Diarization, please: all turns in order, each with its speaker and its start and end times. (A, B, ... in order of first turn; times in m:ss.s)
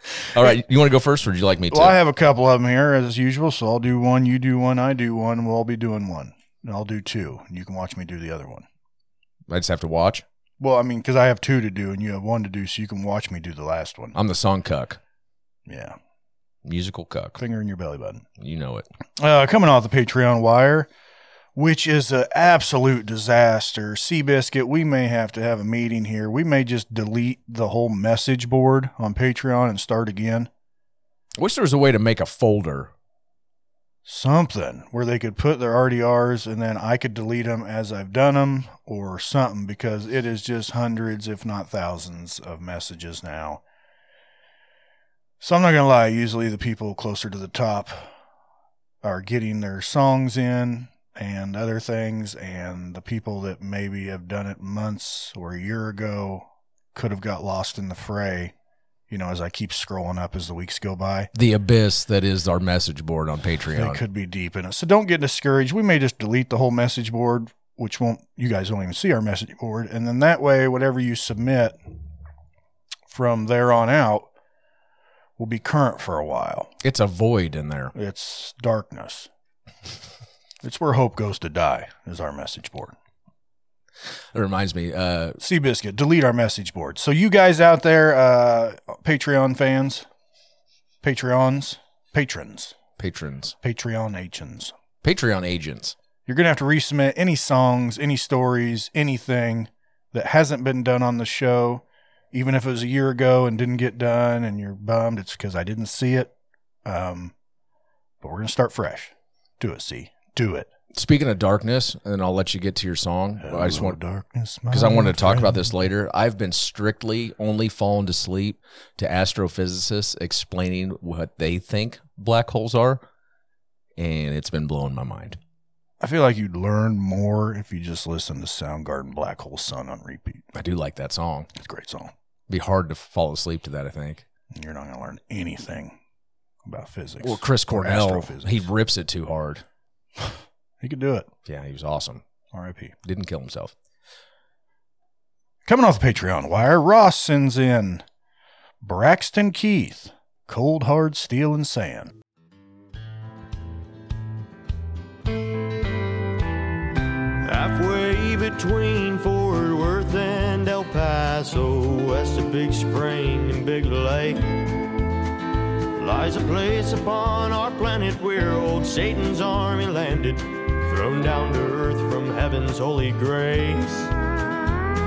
0:00.3-0:02.0 A
0:01.7-0:08.6 B
0:09.5-0:10.2 A
0:10.6-0:14.2 B
0:14.1-0:15.0 A
0:15.7-0:16.0 B
0:16.6-0:17.4 A
0:17.4-0:18.2 B
0:18.4-0:18.9 A
0:19.2-0:20.9 B
0:21.6-0:30.5 B
0:31.4-0:32.9 A
0:34.1-0:43.6 B
0:45.4-0:48.1 B
0:49.0-0:58.5 B
0:59.1-1:01.3 B
1:01.3-1:04.0 A
1:03.7-1:11.8 B
1:13.1-1:14.3 B
1:15.4-1:16.7 B
1:16.8-1:17.9 A
1:17.9-1:19.3 B
1:20.6-1:23.0 B
1:24.3-1:25.4 A
1:25.4-1:30.1 B
1:31.0-1:32.7 B
1:33.0-1:33.6 A
1:33.6-1:34.7 B
1:35.0-1:36.0 A
1:36.3-1:46.3 B
1:46.8-1:47.3 B
1:48.2-1:50.7 B
1:50.9-1:54.0 A
1:53.4-1:55.6 B
1:54.7-2:03.0 A
2:04.0-2:05.4 A
2:06.0-2:10.4 B
2:10.5-2:11.5 A
2:11.6-2:12.1 B
2:12.5-2:14.2 A
2:14.5-2:16.0 B
2:16.6-2:18.6 B
2:17.2-2:19.6 A
2:20.8-2:21.3 B
2:21.5-2:22.2 A
2:22.5-2:22.9 B
2:23.0-2:23.7 A
2:25.7-2:28.0 B
2:28.8-2:32.1 B
2:37.4-2:44.6 C
2:46.0-2:54.1 C